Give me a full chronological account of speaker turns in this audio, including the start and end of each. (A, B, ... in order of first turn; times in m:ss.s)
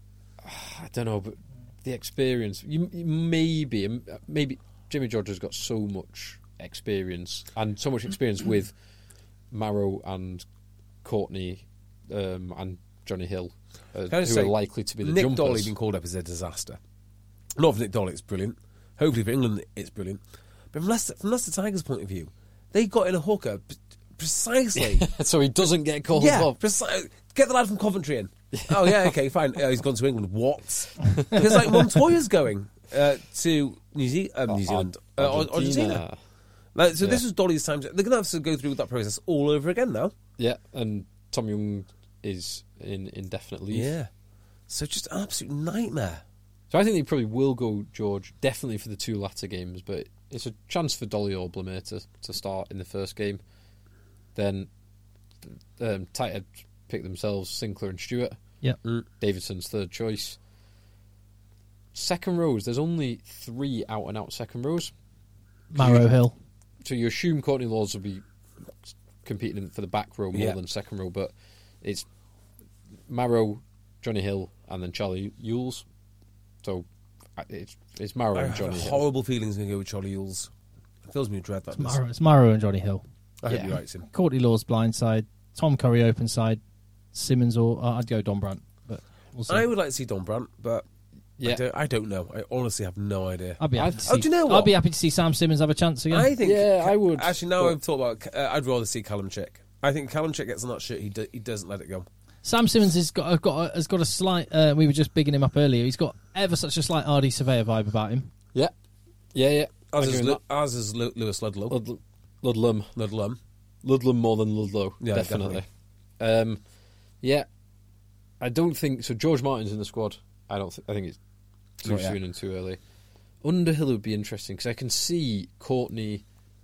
0:00.4-0:08.7 A
0:09.5-0:10.5 A
0:11.0-0:15.7 A
0:14.1-0:16.8 B
0:17.6-0:20.2 B
0:20.7-0:25.1 B
0:24.8-0:26.6 A
0:26.1-0:36.0 B
0:28.5-0:29.1 A
0:31.2-0:31.8 A
0:34.5-0:36.2 A
0:36.8-0:40.1 B
0:40.4-0:43.9 A
0:43.7-0:44.1 B
0:44.7-0:46.2 B
0:46.7-0:53.4 A
0:54.4-0:54.7 A
0:55.4-0:58.4 A
0:59.2-1:00.4 A
1:01.9-1:04.9 A
1:05.7-1:06.3 C
1:06.8-1:08.2 A
1:08.8-1:12.1 A
1:13.1-1:15.8 A
1:16.6-1:19.0 A
1:18.3-1:20.5 B
1:21.0-1:22.0 B
1:21.8-1:23.0 C
1:23.4-1:24.1 B
1:23.6-1:26.6 C
1:27.1-1:29.6 C
1:29.5-1:30.8 B
1:31.4-1:34.7 B
1:33.6-1:36.3 C
1:33.8-1:34.1 A
1:36.1-1:42.1 B
1:36.4-1:37.8 A
1:42.4-1:48.3 C
1:49.3-1:50.4 A
1:49.9-1:51.8 B
1:51.7-1:52.9 A
1:53.0-1:53.4 B
1:53.8-1:55.7 A
1:55.0-1:55.6 B
1:56.2-1:56.6 A
1:57.2-1:57.5 A
1:58.4-2:01.2 A
2:01.8-2:02.8 A
2:01.8-2:02.2 B
2:03.4-2:06.2 A